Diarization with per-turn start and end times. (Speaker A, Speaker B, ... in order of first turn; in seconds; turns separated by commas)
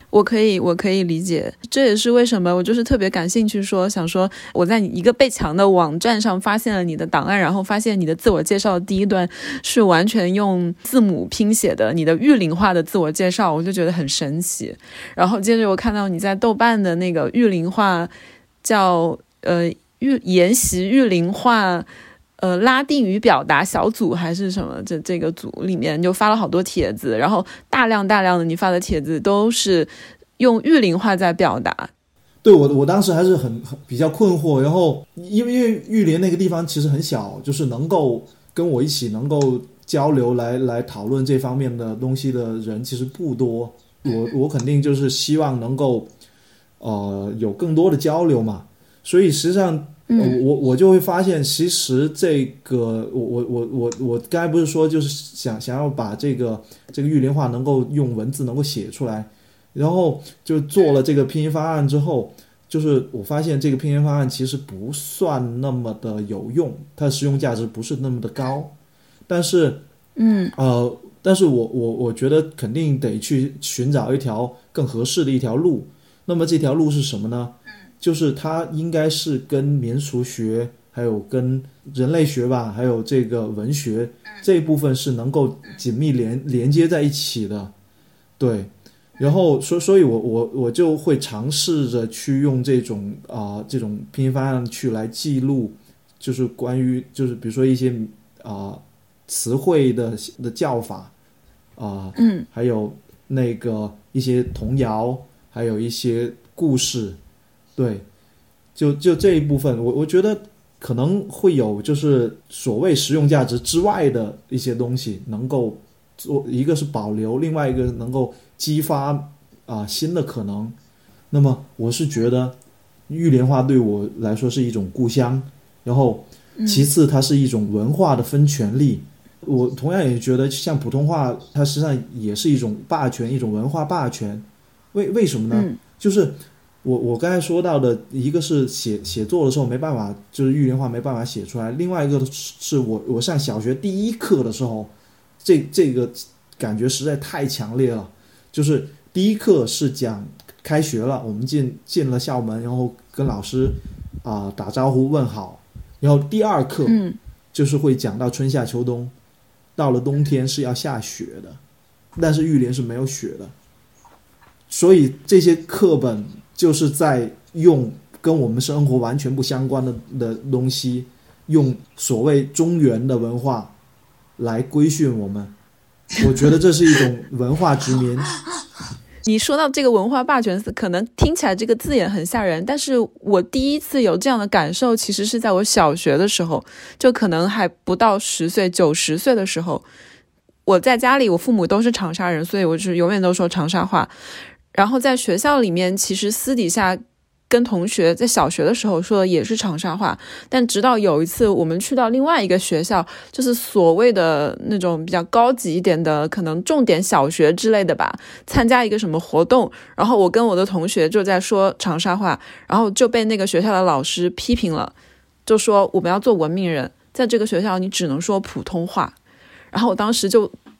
Speaker A: 0.1-18.1, Speaker A: 18.6-21.9, Speaker A: 22.4-31.9, Speaker B: 32.4-46.1, Speaker B: 46.8-68.8, Speaker A: 50.1-50.4, Speaker B: 69.3-69.8, Speaker A: 70.2-70.5, Speaker B: 70.5-87.7, Speaker B: 88.4-101.1, Speaker B: 101.8-107.2, Speaker A: 102.2-102.5, Speaker B: 107.8-108.0, Speaker B: 108.8-120.8, Speaker B: 121.3-122.6, Speaker B: 123.1-144.9, Speaker A: 126.6-126.9, Speaker A: 135.5-135.8, Speaker B: 145.4-157.0, Speaker A: 156.9-157.2, Speaker B: 157.5-159.1, Speaker B: 159.8-161.6, Speaker B: 162.2-163.5, Speaker B: 164.7-173.7, Speaker B: 174.4-175.5, Speaker B: 176.2-178.4, Speaker A: 179.2-189.8, Speaker A: 190.7-194.1, Speaker A: 194.7-214.9, Speaker A: 215.4-219.1, Speaker A: 219.7-220.5